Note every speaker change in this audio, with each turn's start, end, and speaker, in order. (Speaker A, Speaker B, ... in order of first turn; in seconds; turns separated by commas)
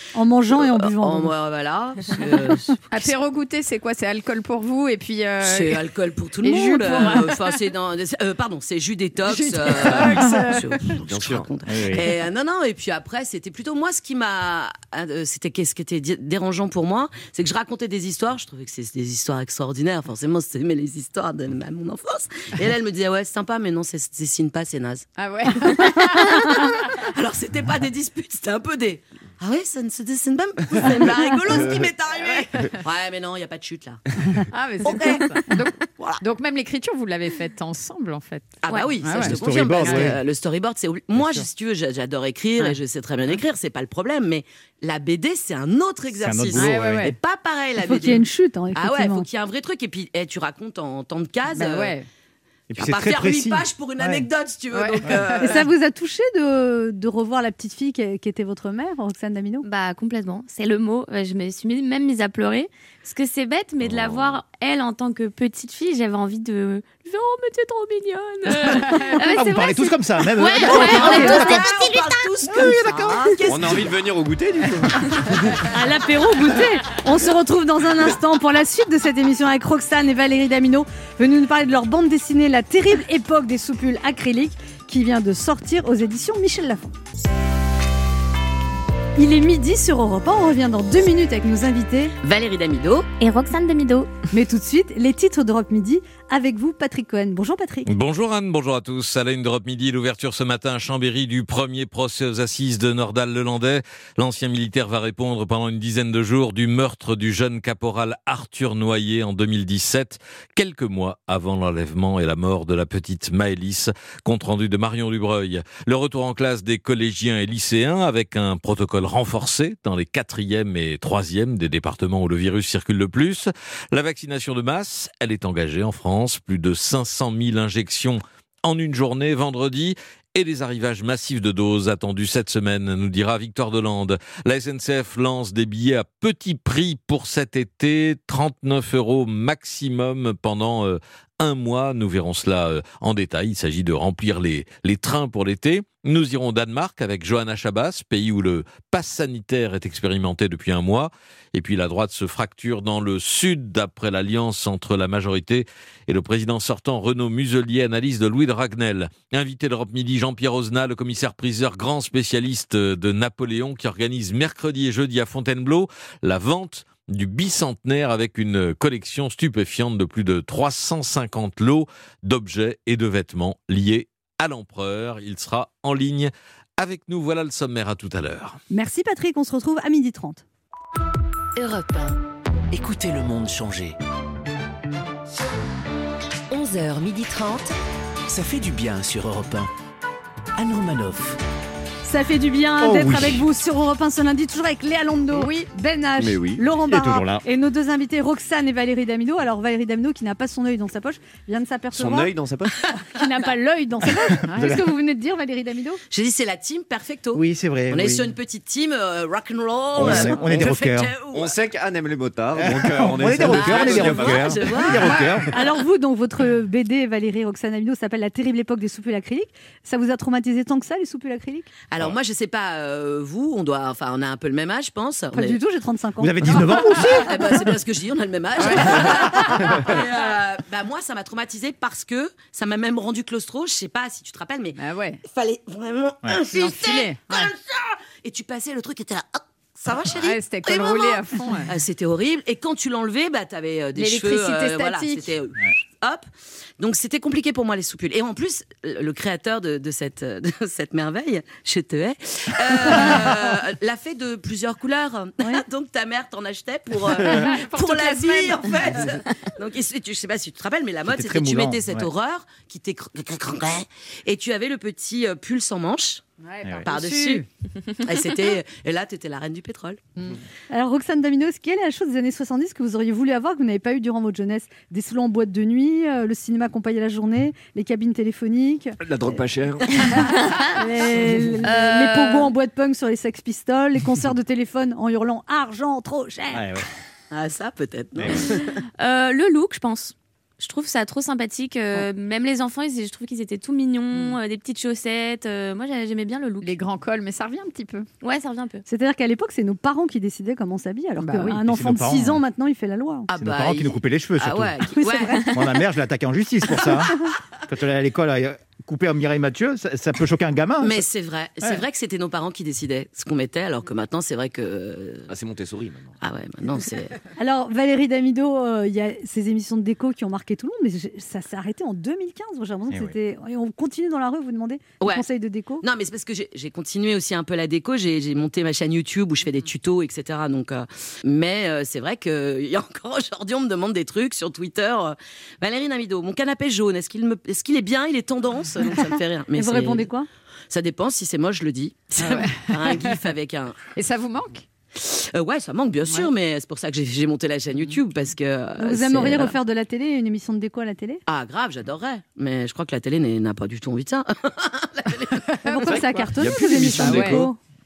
Speaker A: 0.1-1.3, Speaker B: 0.5-3.1, Speaker C: 2.9-5.8, Speaker B: 5.4-25.1, Speaker C: 6.4-7.6, Speaker C: 9.3-10.9, Speaker D: 11.1-11.5, Speaker E: 11.7-12.0, Speaker C: 25.2-26.9, Speaker B: 25.6-34.0, Speaker C: 34.5-40.1, Speaker B: 34.8-36.2, Speaker B: 38.6-51.9, Speaker E: 39.2-40.2, Speaker E: 41.1-41.5, Speaker E: 46.2-47.0, Speaker C: 46.5-47.2, Speaker A: 47.8-49.2, Speaker C: 51.5-52.1, Speaker E: 52.7-54.3, Speaker B: 52.8-55.6, Speaker C: 54.7-55.4, Speaker A: 55.4-59.6, Speaker F: 59.6-69.6, Speaker D: 63.9-64.2, Speaker A: 68.6-70.0, Speaker E: 69.2-71.8, Speaker F: 70.3-72.4, Speaker A: 70.5-71.5, Speaker B: 70.6-73.9, Speaker E: 72.5-73.5, Speaker D: 73.5-75.6, Speaker A: 75.7-86.9, Speaker A: 89.2-92.1, Speaker B: 92.2-93.1, Speaker F: 93.2-94.1, Speaker A: 94.3-97.9, Speaker G: 97.9-178.6, Speaker A: 178.7-180.4, Speaker H: 181.6-182.2, Speaker H: 182.7-184.0, Speaker B: 186.5-187.7, Speaker H: 186.8-187.2, Speaker H: 188.3-189.7, Speaker H: 190.6-191.4, Speaker A: 192.0-202.3, Speaker D: 192.8-193.4, Speaker C: 195.4-195.7, Speaker D: 196.2-196.6, Speaker E: 196.9-197.4, Speaker D: 201.9-202.9, Speaker A: 203.0-206.0, Speaker C: 204.5-204.8, Speaker E: 204.6-204.9, Speaker B: 206.1-211.6, Speaker E: 207.3-208.3, Speaker E: 210.0-211.1, Speaker D: 210.0-210.7, Speaker D: 211.3-214.6, Speaker E: 212.6-215.5, Speaker B: 213.4-215.3, Speaker A: 215.5-221.7, Speaker B: 221.9-225.6, Speaker A: 225.3-226.9, Speaker E: 226.2-227.6, Speaker B: 227.1-246.2, Speaker C: 228.6-229.7, Speaker C: 234.8-235.2, Speaker C: 236.5-237.5, Speaker C: 240.2-241.7, Speaker C: 243.9-245.3, Speaker B: 246.8-266.2, Speaker C: 257.2-258.8, Speaker E: 261.1-262.1, Speaker C: 266.4-267.5, Speaker B: 266.8-267.4, Speaker B: 268.0-270.0, Speaker A: 270.7-279.0, Speaker D: 279.0-280.2, Speaker A: 279.9-286.8, Speaker F: 280.2-280.8, Speaker F: 281.6-282.5, Speaker E: 286.5-286.9, Speaker B: 287.3-288.8, Speaker E: 288.2-288.4, Speaker F: 289.0-296.8, Speaker C: 296.6-298.1, Speaker F: 298.2-298.9, Speaker A: 298.9-303.3, Speaker C: 301.2-301.6, Speaker E: 301.6-302.4, Speaker B: 303.3-305.4, Speaker E: 303.4-304.8, Speaker A: 305.0-305.6, Speaker E: 305.5-307.1, Speaker E: 307.7-311.0, Speaker B: 310.8-315.3, Speaker D: 315.3-316.1, Speaker B: 316.2-317.2, Speaker A: 317.4-325.8, Speaker E: 322.9-323.1, Speaker B: 325.0-325.3, Speaker B: 325.8-340.1, Speaker A: 339.6-340.3, Speaker B: 340.7-343.8, Speaker C: 342.2-343.1, Speaker C: 343.9-344.6, Speaker B: 345.0-349.6, Speaker A: 348.8-351.2, Speaker B: 351.3-355.5, Speaker C: 355.5-356.2, Speaker A: 355.6-357.6, Speaker D: 355.9-357.5, Speaker C: 357.0-357.4